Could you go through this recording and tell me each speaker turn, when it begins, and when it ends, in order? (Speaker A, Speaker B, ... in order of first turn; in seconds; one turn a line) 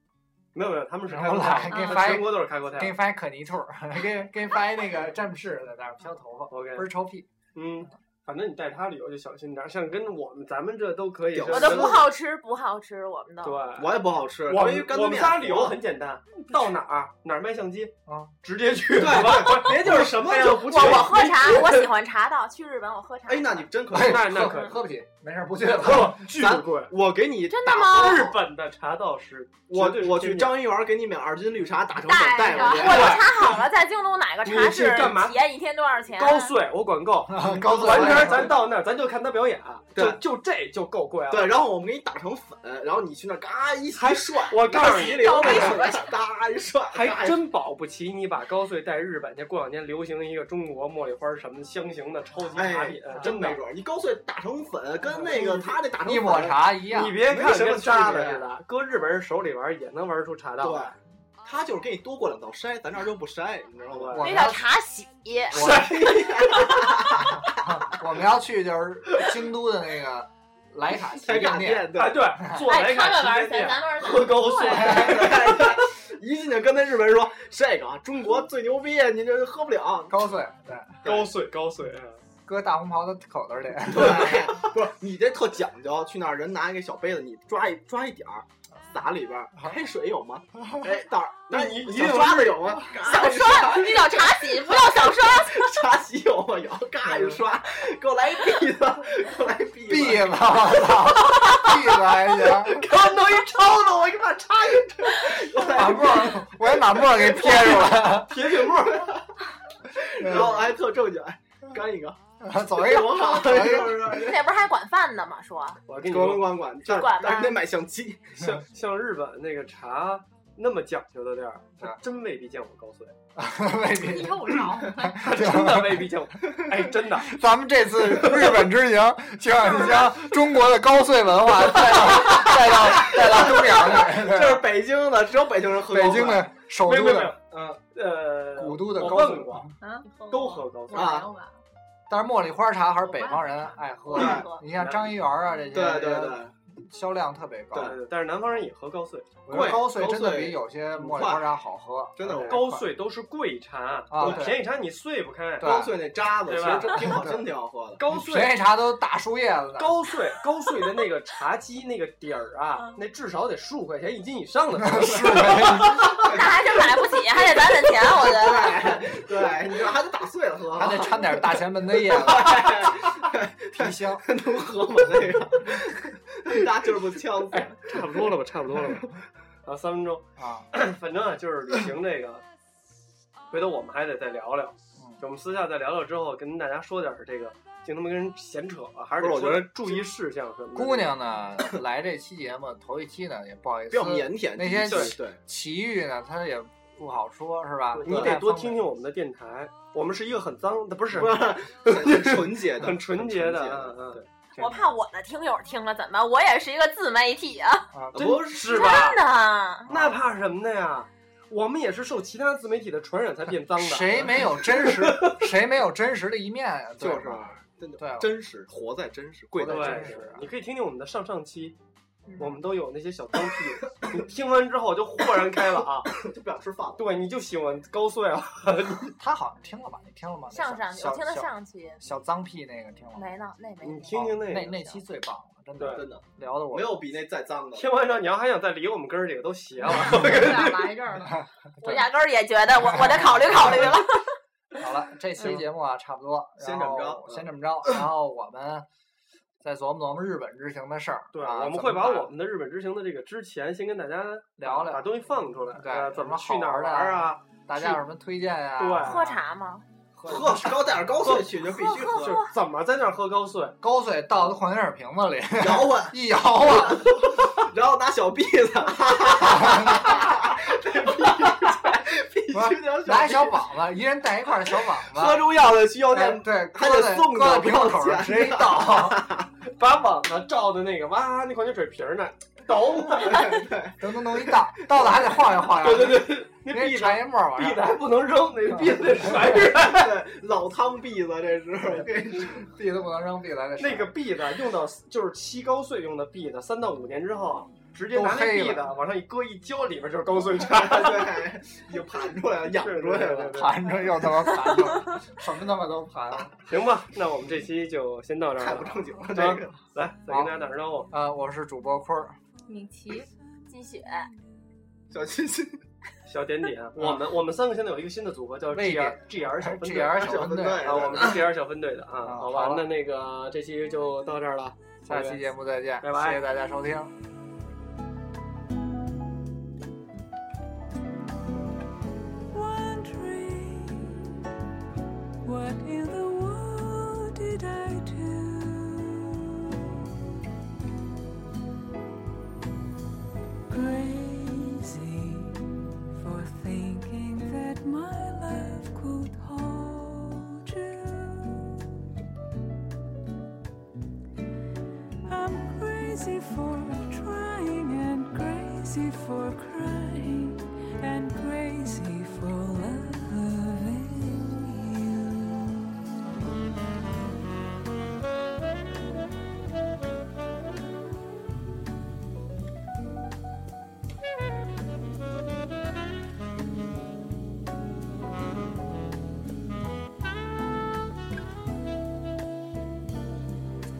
Speaker A: 0.5-3.0
Speaker B: 1.1-7.3
Speaker C: 1.7-2.3
Speaker A: 6.5-6.9
Speaker A: 7.5-12.1
Speaker D: 11.3-12.1
Speaker E: 11.5-13.6
Speaker A: 13.4-21.9
Speaker D: 13.8-15.8
Speaker C: 16.4-16.8
Speaker B: 18.1-18.3
Speaker D: 19.0-21.1
Speaker E: 20.6-23.7
Speaker D: 23.3-24.6
Speaker B: 23.9-26.4
Speaker A: 23.9-24.8
Speaker A: 25.8-26.9
Speaker D: 26.3-28.4
Speaker E: 27.5-28.3
Speaker A: 27.9-30.6
Speaker D: 29.7-33.3
Speaker E: 32.0-36.5
Speaker A: 32.5-33.5
Speaker A: 34.5-35.5
Speaker A: 36.2-41.5
Speaker B: 37.3-38.5
Speaker D: 37.4-38.6
Speaker D: 41.3-47.4
Speaker A: 43.9-45.8
Speaker E: 44.7-46.1
Speaker A: 46.9-53.6
Speaker D: 52.5-56.6
Speaker A: 55.1-55.8
Speaker B: 56.0-57.3
Speaker A: 56.9-60.9
Speaker D: 57.3-58.5
Speaker D: 60.6-64.3
Speaker A: 63.9-64.3
Speaker B: 64.1-64.7
Speaker E: 64.2-65.6
Speaker A: 65.5-66.8
Speaker D: 65.5-67.8
Speaker B: 67.5-72.6
Speaker D: 71.1-72.4
Speaker A: 72.0-75.8
Speaker E: 72.6-75.2
Speaker D: 74.5-80.3
Speaker B: 74.6-75.3
Speaker B: 80.1-81.0
Speaker D: 81.0-81.3
Speaker A: 81.0-82.2
Speaker B: 82.5-84.5
Speaker D: 83.9-100.5
Speaker A: 91.5-92.8
Speaker E: 93.0-95.7
Speaker A: 97.0-97.4
Speaker B: 99.9-102.8
Speaker A: 102.6-105.2
Speaker D: 104.7-106.5
Speaker B: 105.6-108.4
Speaker D: 107.4-109.3
Speaker A: 107.5-109.1
Speaker D: 109.9-112.2
Speaker B: 110.2-110.5
Speaker B: 112.4-114.2
Speaker D: 112.7-114.4
Speaker E: 113.9-115.8
Speaker A: 115.9-117.1
Speaker D: 116.0-118.5
Speaker E: 116.9-117.6
Speaker A: 118.4-123.1
Speaker B: 123.4-134.7
Speaker C: 124.0-125.3
Speaker A: 125.2-127.4
Speaker A: 128.0-128.7
Speaker D: 132.3-136.5
Speaker B: 135.8-137.3
Speaker A: 136.8-137.4
Speaker D: 137.5-137.8
Speaker A: 137.9-139.7
Speaker B: 138.6-139.7
Speaker C: 139.8-141.6
Speaker A: 140.3-141.2
Speaker D: 140.9-141.3
Speaker B: 142.1-148.0
Speaker C: 143.0-143.8
Speaker E: 144.1-144.6
Speaker D: 144.1-144.4
Speaker A: 144.8-145.1
Speaker D: 145.7-146.5
Speaker A: 147.8-149.8
Speaker B: 149.4-152.9
Speaker D: 149.5-151.4
Speaker D: 152.2-152.7
Speaker A: 152.3-155.8
Speaker B: 154.1-154.6
Speaker D: 154.2-154.5
Speaker B: 155.6-156.0
Speaker D: 155.6-158.0
Speaker A: 156.4-157.2
Speaker B: 157.1-157.5
Speaker A: 158.0-158.6
Speaker B: 158.1-160.0
Speaker A: 159.8-166.1
Speaker B: 164.8-166.1
Speaker D: 165.1-166.4
Speaker E: 166.2-168.9
Speaker D: 168.0-178.0
Speaker B: 170.7-173.1
Speaker B: 173.7-174.3
Speaker A: 177.5-179.1
Speaker A: 179.6-182.4
Speaker B: 180.4-180.7
Speaker A: 183.5-191.2
Speaker D: 189.2-190.0
Speaker B: 190.7-198.9
Speaker D: 193.9-195.4
Speaker A: 194.7-195.2
Speaker A: 197.9-204.7
Speaker D: 198.1-198.3
Speaker D: 201.2-204.2
Speaker E: 204.6-207.9
Speaker B: 207.9-208.3
Speaker D: 208.1-209.1
Speaker A: 208.2-209.2
Speaker E: 208.7-209.9
Speaker A: 209.9-215.5
Speaker B: 213.8-218.3
Speaker D: 217.0-220.2
Speaker B: 219.5-220.5
Speaker A: 219.7-221.8
Speaker A: 222.4-226.2
Speaker D: 226.1-227.2
Speaker A: 227.0-229.1
Speaker B: 229.2-233.3
Speaker E: 230.5-232.0
Speaker E: 233.2-235.0
Speaker A: 233.8-234.8
Speaker B: 234.2-237.0
Speaker A: 235.8-236.1
Speaker D: 235.9-237.9
Speaker A: 237.7-240.9
Speaker C: 239.8-241.4
Speaker E: 241.8-244.3
Speaker B: 241.8-242.1
Speaker B: 242.8-243.9
Speaker B: 244.7-248.9
Speaker A: 245.4-245.6
Speaker D: 246.6-247.4
Speaker B: 249.6-252.3
Speaker A: 251.3-258.0
Speaker B: 254.6-255.1
Speaker B: 255.7-259.4
Speaker A: 258.8-259.3
Speaker E: 259.0-259.8
Speaker B: 260.1-260.9
Speaker D: 260.2-262.4
Speaker A: 261.2-263.8
Speaker E: 261.7-262.5
Speaker B: 263.8-267.4
Speaker D: 265.6-273.6
Speaker B: 269.3-270.3
Speaker B: 272.5-279.2
Speaker D: 275.0-279.5
Speaker A: 279.7-283.6
Speaker D: 282.7-285.7
Speaker B: 284.0-287.9
Speaker A: 285.7-290.1
Speaker B: 288.7-289.4
Speaker D: 289.7-292.7
Speaker B: 291.8-294.1
Speaker A: 293.8-301.4
Speaker B: 298.1-298.9
Speaker D: 300.7-303.6
Speaker A: 302.7-304.0
Speaker B: 303.5-306.5
Speaker A: 306.7-311.1
Speaker D: 308.6-309.7
Speaker B: 310.3-310.5
Speaker B: 311.1-312.4
Speaker C: 312.7-313.3
Speaker E: 313.7-314.3
Speaker D: 315.1-315.8
Speaker A: 316.3-325.4
Speaker B: 317.0-317.2
Speaker B: 318.7-321.3
Speaker D: 320.2-321.4
Speaker B: 322.2-322.9
Speaker B: 325.1-327.1
Speaker A: 326.0-326.4
Speaker F: 332.5-334.2
Speaker F: 335.4-339.4
Speaker F: 343.7-351.8
Speaker F: 355.2-365.9